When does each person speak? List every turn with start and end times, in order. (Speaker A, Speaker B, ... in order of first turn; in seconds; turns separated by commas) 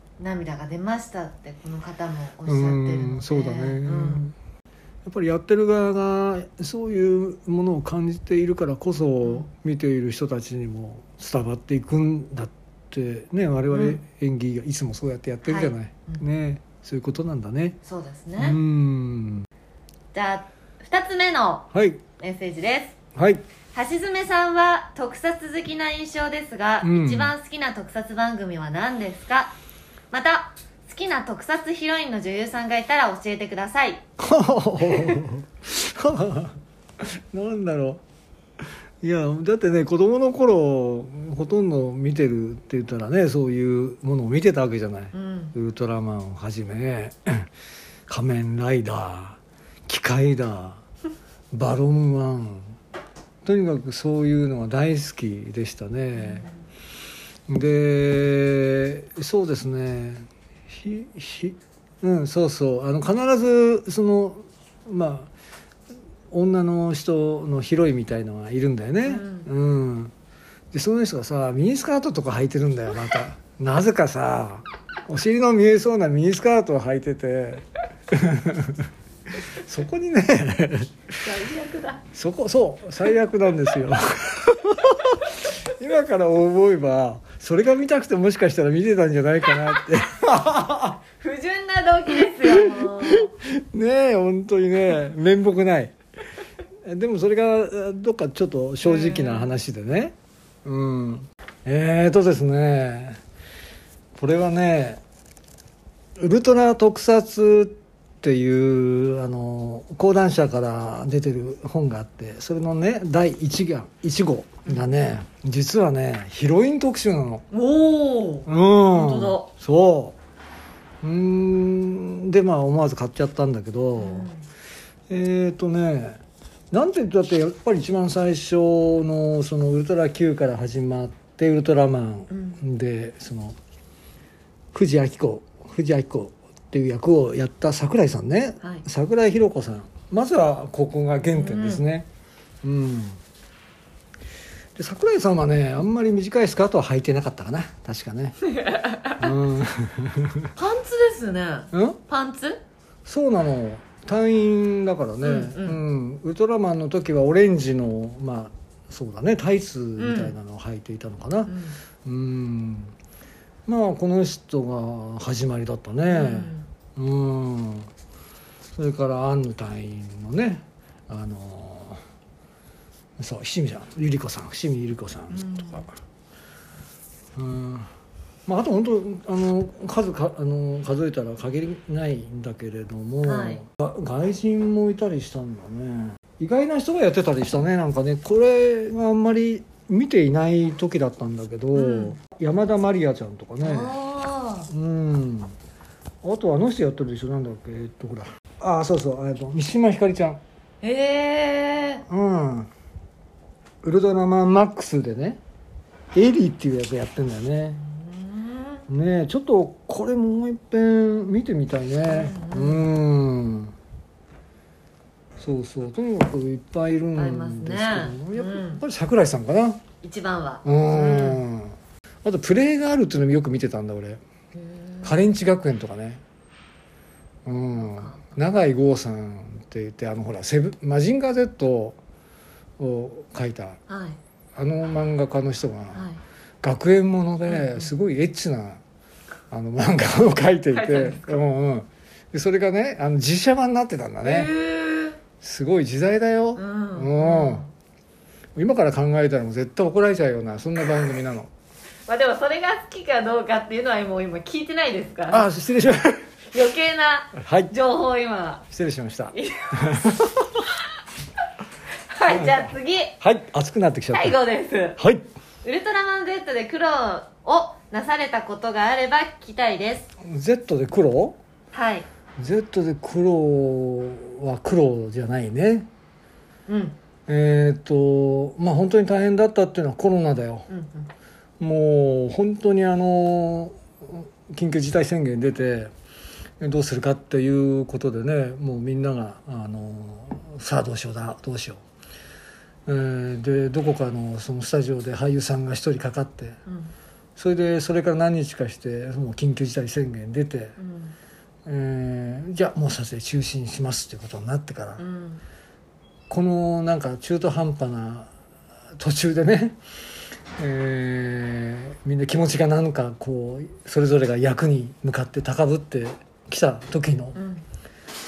Speaker A: 0.2-4.2, Speaker B: 2.5-4.3, Speaker B: 5.0-17.8, Speaker A: 9.2-9.5, Speaker A: 13.7-14.0, Speaker A: 15.4-16.2, Speaker A: 17.8-18.6, Speaker B: 18.4-19.4, Speaker A: 20.1-23.0, Speaker B: 21.7-22.0, Speaker B: 23.1-23.4, Speaker A: 23.7-29.6, Speaker B: 26.8-27.3, Speaker A: 30.1-34.0, Speaker B: 34.2-38.0, Speaker A: 34.8-35.2, Speaker B: 39.0-47.5, Speaker A: 45.1-45.5, Speaker B: 48.1-50.8, Speaker B: 51.5-52.7, Speaker B: 53.4-56.5, Speaker A: 56.1-56.5, Speaker B: 57.5-65.3, Speaker B: 66.3-70.1, Speaker A: 69.0-69.5, Speaker B: 70.7-78.9, Speaker B: 79.6-81.0, Speaker A: 81.2-82.0, Speaker B: 82.1-91.0, Speaker A: 91.2-93.3, Speaker B: 92.3-95.9, Speaker B: 96.8-100.1, Speaker A: 98.8-99.5, Speaker B: 100.6-103.2, Speaker B: 104.2-105.0, Speaker B: 106.2-117.5, Speaker A: 117.5-119.5, Speaker B: 118.5-120.2, Speaker B: 121.0-124.3, Speaker A: 124.0-124.5, Speaker B: 125.1-126.2, Speaker B: 126.7-133.6, Speaker A: 132.3-132.6, Speaker B: 134.7-142.1, Speaker A: 141.3-141.8, Speaker B: 142.6-143.2, Speaker B: 144.8-148.4, Speaker A: 148.5-149.3, Speaker B: 149.2-150.5, Speaker A: 150.5-152.6, Speaker B: 151.7-152.0, Speaker B: 153.1-162.9, Speaker A: 155.2-155.8, Speaker A: 160.0-160.3, Speaker A: 161.5-161.8, Speaker B: 163.7-167.9, Speaker A: 166.1-166.7, Speaker B: 168.7-172.0, Speaker B: 173.2-175.9, Speaker A: 175.3-175.9, Speaker B: 177.3-177.9, Speaker B: 178.4-194.0, Speaker A: 183.2-183.6, Speaker A: 191.7-192.2, Speaker A: 193.6-194.7, Speaker B: 194.7-195.5, Speaker B: 196.2-200.4, Speaker A: 200.8-202.0, Speaker B: 202.1-202.7, Speaker B: 203.8-205.4, Speaker B: 206.1-207.8, Speaker A: 207.8-208.9, Speaker B: 208.9-213.7, Speaker A: 212.0-212.9, Speaker B: 215.4-219.8, Speaker A: 217.1-218.8, Speaker A: 220.0-221.4, Speaker B: 220.6-224.2, Speaker A: 224.6-225.2, Speaker B: 225.0-226.2, Speaker B: 227.4-232.0, Speaker A: 227.7-228.3, Speaker B: 232.8-233.8, Speaker A: 233.9-234.2, Speaker B: 234.6-236.1, Speaker A: 235.9-236.2, Speaker B: 236.6-238.8, Speaker A: 237.5-237.9, Speaker B: 239.5-244.5, Speaker A: 240.7-241.4, Speaker A: 244.2-245.2, Speaker B: 245.4-247.7, Speaker A: 246.5-247.7, Speaker B: 248.6-251.5, Speaker A: 252.1-255.5, Speaker B: 255.3-256.2, Speaker A: 256.5-258.6, Speaker B: 257.3-257.7, Speaker B: 258.7-260.6, Speaker A: 259.3-259.9, Speaker A: 262.1-263.1, Speaker B: 262.3-264.4, Speaker A: 264.1-265.0, Speaker B: 264.9-265.2, Speaker A: 265.6-270.1, Speaker B: 270.2-271.4, Speaker A: 271.7-272.1, Speaker B: 272.4-275.9, Speaker A: 276.7-276.9, Speaker B: 277.3-280.7, Speaker A: 280.7-281.1, Speaker B: 281.6-285.9, Speaker B: 286.6-291.8, Speaker B: 292.9-296.6, Speaker A: 296.6-296.9, Speaker B: 297.4-300.8, Speaker A: 300.8-301.1, Speaker B: 301.6-305.0, Speaker A: 305.0-305.4, Speaker B: 306.3-308.3, Speaker B: 309.0-309.8, Speaker B: 310.6-317.4, Speaker A: 317.3-317.6